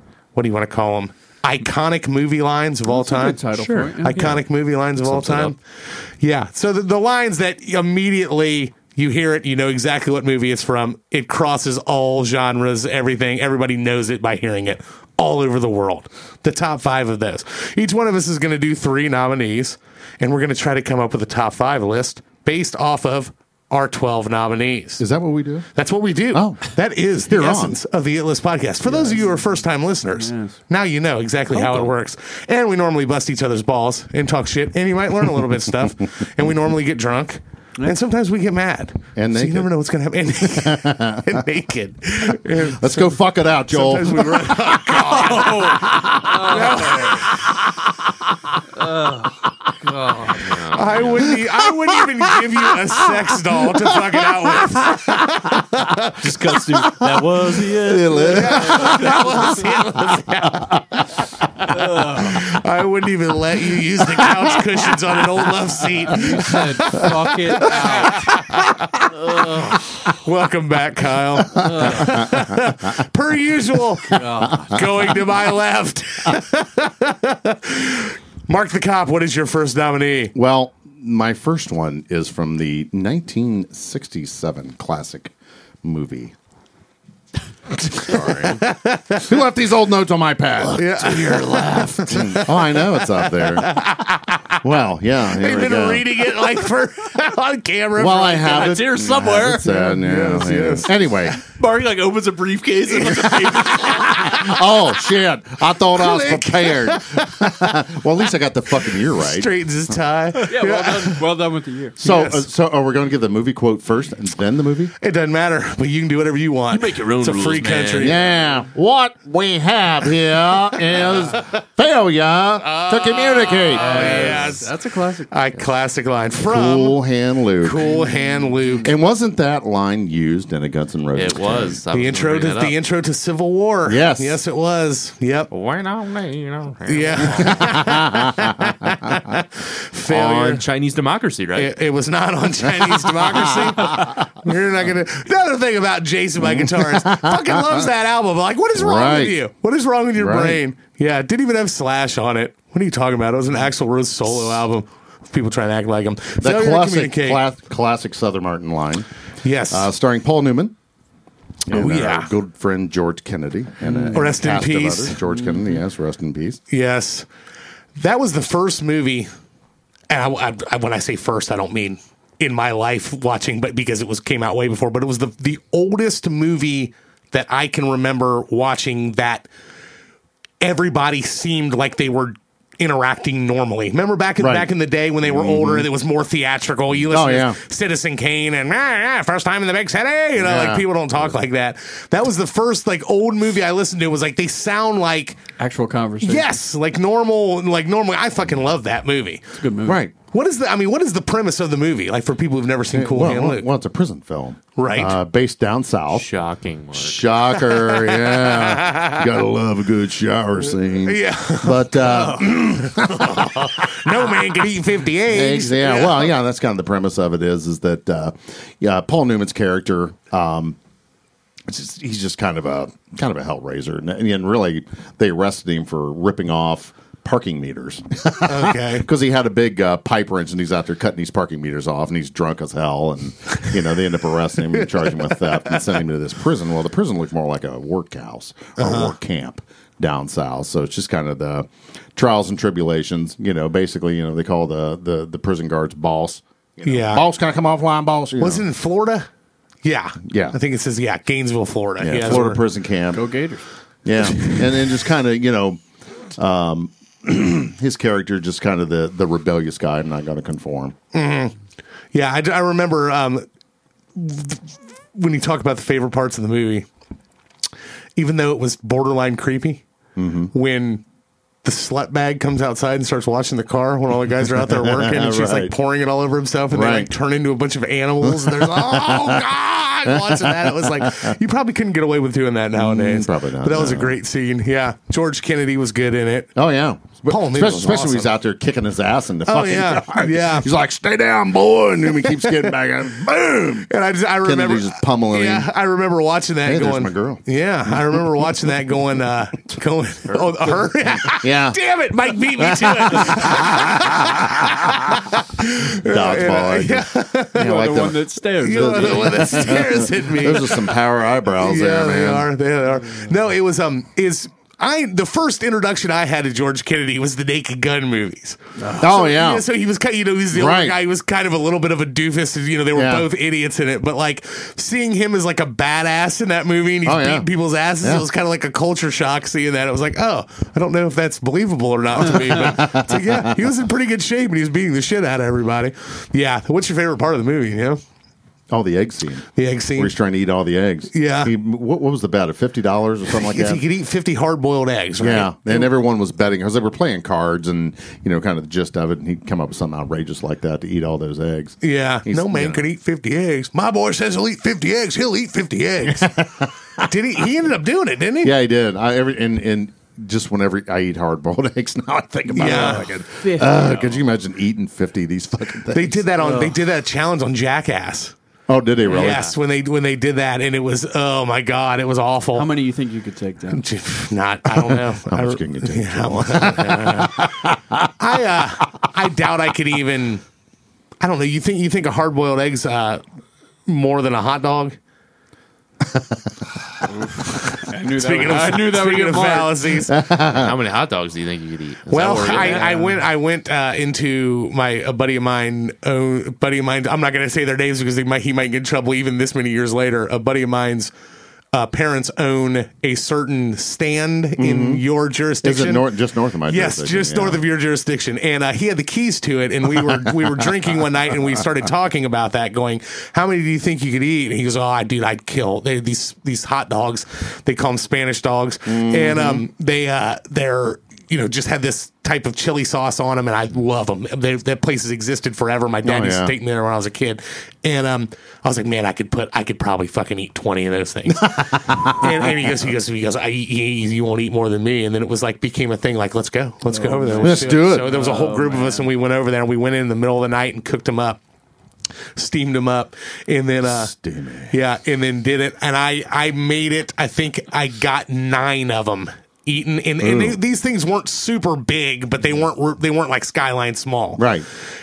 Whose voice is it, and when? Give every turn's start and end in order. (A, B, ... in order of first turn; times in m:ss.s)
0:00.4-0:03.5 A
0:02.9-0:04.4 B
0:03.6-0:04.4 C
0:04.0-0:05.6 A
0:05.0-0:05.5 C
0:06.2-0:25.0 A
0:25.0-0:25.7 D
0:25.8-0:47.6 A
0:26.3-0:27.8 D
0:28.9-0:29.2 D
0:29.1-0:29.4 B
0:30.1-0:30.6 B
0:31.6-0:31.8 D
0:39.2-0:39.7 D
0:40.4-0:41.4 D
0:42.5-0:47.5 D
0:45.1-0:47.3 B
0:48.8-0:49.3 B
0:49.8-0:50.4 B
0:50.3-0:51.3 C
0:50.7-0:56.6 A
0:51.6-0:55.1 D
0:56.2-0:58.4 C
0:56.8-0:59.8 D
0:58.0-0:59.5 B
0:58.3-1:20.3 A
1:00.4-1:00.9 D
1:01.7-1:02.5 B
1:04.2-1:04.7 D
1:06.1-1:08.4 B
1:06.1-1:07.0 D
1:09.4-1:09.7 B
1:11.6-1:12.5 D
1:11.7-1:12.2 B
1:14.1-1:14.8 B
1:14.3-1:14.8 D
1:20.3-1:26.3 D
1:27.8-1:28.6 D
1:28.1-1:29.3 A
1:29.2-1:33.8 D
1:30.7-1:34.6 A
1:34.6-1:36.2 D
1:35.3-1:38.8 A
1:38.0-1:41.4 D
1:38.4-1:39.6 C
1:38.9-1:39.6 B
1:39.6-1:41.4 A
1:41.6-1:44.3 C
1:42.8-1:44.1 B
1:44.1-1:49.5 D
1:45.9-1:47.7 A
1:49.2-1:51.2 A
1:50.4-1:52.0 B
1:52.0-1:54.9 D
1:52.0-1:52.4 A
1:55.0-1:58.2 A
1:56.7-1:58.2 C
1:58.0-2:04.6 D
2:02.6-2:04.7 A
2:03.7-2:05.3 B
2:05.3-2:07.0 A
2:06.4-2:08.0 D
2:07.6-2:08.9 A
2:07.8-2:08.7 B
2:08.8-2:11.8 D
2:11.1-2:12.8 C
2:11.9-2:15.5 A
2:13.9-2:14.4 D
2:15.5-2:17.8 C
2:16.9-2:20.6 A
2:17.3-2:19.2 D
2:20.1-2:21.7 C
2:21.6-2:37.4 A
2:23.1-2:24.1 D
2:26.4-2:27.9 D
2:28.8-2:29.4 D
2:30.2-2:30.6 D
2:36.4-2:39.1 D
2:39.4-2:39.9 A
2:39.7-2:40.8 D
2:41.7-2:46.6 D
2:41.7-2:42.3 A
2:43.9-2:44.2 B
2:44.1-2:45.2 A
2:46.7-2:47.3 A
2:48.0-2:49.3 A
2:50.1-2:59.5 A
3:00.6-3:15.4 A
3:04.4-3:04.7 D
3:05.2-3:05.9 D
3:07.1-3:07.6 D
3:10.4-3:11.2 D
3:15.6-3:16.5 B
3:16.2-3:19.5 A
3:19.5-3:20.0 B
3:19.8-3:20.1 D
3:20.3-3:23.7 A
3:22.9-3:26.3 D
3:24.8-3:25.2 A
3:26.1-3:27.3 C
3:26.9-3:34.4 D
3:27.6-3:29.2 A
3:31.0-3:36.3 A
3:35.3-3:40.8 D
3:41.7-4:08.7 D
3:48.4-3:49.1 A
3:58.8-3:59.2 A
4:06.8-4:07.2 A
4:08.4-4:09.3 A
4:09.8-4:12.6 A
4:10.2-4:10.6 D
4:12.0-4:13.2 D
4:13.1-4:13.6 B
4:14.0-4:15.8 D
4:14.3-4:14.6 A
4:16.4-4:21.0 D
4:21.1-4:21.5 A
4:22.1-4:23.5 A
4:24.2-4:26.9 A
4:28.2-4:29.8 A
4:30.2-4:30.5 D
4:30.5-4:31.0 A
4:31.6-4:46.5 A
4:34.6-4:35.7 D
4:36.7-4:37.1 D
4:38.2-4:39.5 D
4:40.1-4:41.4 D
4:42.7-4:44.2 D
4:46.6-4:53.9 D
4:47.2-4:48.3 A
4:49.5-4:50.7 A
4:53.9-5:07.7 A
4:54.4-4:55.7 D
4:56.6-4:57.4 D
5:01.2-5:01.8 D
5:02.6-5:05.2 D
5:06.0-5:12.5 D
5:07.6-5:09.9 B
5:08.6-5:10.9 A
5:11.6-5:38.0 A
5:18.8-5:19.1 B
5:19.0-5:19.6 D
5:20.5-5:21.0 D
5:23.0-5:23.3 D
5:27.0-5:27.5 D
5:32.2-5:33.6 D
5:38.7-5:43.8 D
5:39.6-5:40.1 A
5:41.1-5:41.5 A
5:43.4-5:45.9 A
5:45.2-5:52.8 D
5:51.8-5:56.5 A
5:56.1-5:57.1 D
5:57.0-5:58.5 A
5:58.4-6:06.3 D
6:02.5-6:03.1 A
6:02.5-6:04.2 B
6:05.9-6:08.4 A
6:06.4-6:06.8 B
6:08.7-6:09.5 D
6:09.0-6:09.5 C
6:09.1-6:12.7 A
6:12.5-6:13.8 B
6:13.7-6:17.5 A
6:14.8-6:18.1 D
6:18.2-6:20.4 A
6:21.2-6:23.2 A
6:23.9-6:25.0 A
6:27.5-6:30.2 A
6:27.9-6:29.9 B
6:30.1-6:30.7 D
6:30.5-6:33.0 C
6:32.1-6:41.1 A
6:32.4-6:33.2 B
6:41.7-6:46.1 A
6:44.6-6:45.0 D
6:45.6-6:47.6 D
6:46.7-7:21.4 A
6:50.0-6:50.6 D
6:58.9-6:59.6 D
7:06.0-7:06.5 D
7:11.3-7:12.5 D
7:16.8-7:19.1 B
7:17.4-7:18.1 D
7:22.4-7:24.1 A
7:23.8-7:24.7 D
7:24.7-7:34.4 A
7:30.2-7:30.6 D
7:34.4-7:34.7 D